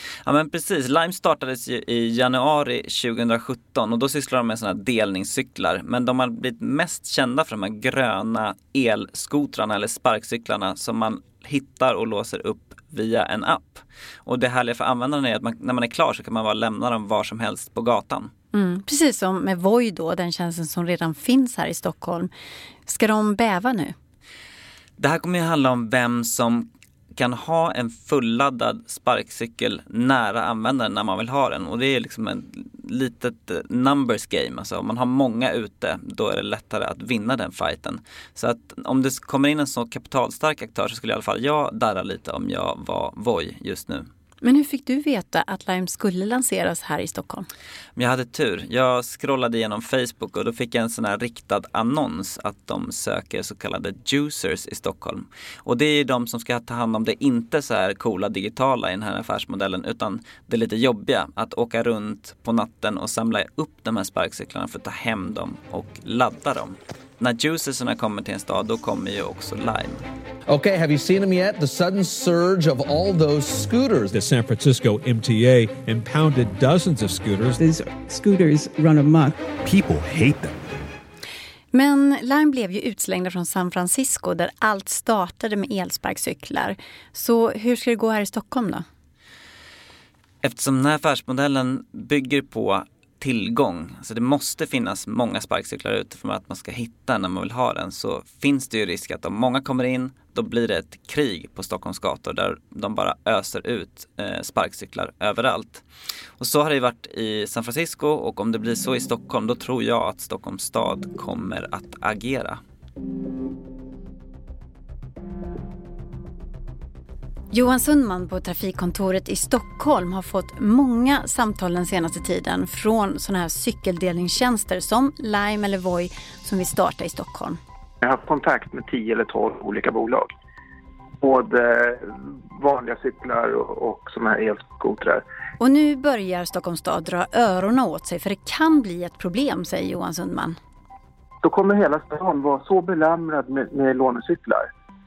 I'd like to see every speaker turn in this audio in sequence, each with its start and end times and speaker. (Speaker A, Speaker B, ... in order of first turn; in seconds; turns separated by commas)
Speaker A: 0.2-18.3, Speaker B: 18.5-22.3, Speaker B: 22.9-23.9, Speaker A: 25.0-44.1, Speaker B: 44.4-47.5, Speaker A: 48.0-70.0, Speaker C: 70.5-74.2, Speaker D: 74.1-77.6, Speaker E: 77.6-79.5, Speaker C: 79.6-80.3, Speaker B: 81.7-88.8, Speaker A: 90.4-105.8, Speaker A: 106.4-112.6, Speaker B: 117.5-127.6, Speaker F: 128.0-130.3, Speaker F: 131.2-135.2, Speaker B: 135.6-140.6, Speaker F: 141.5-144.6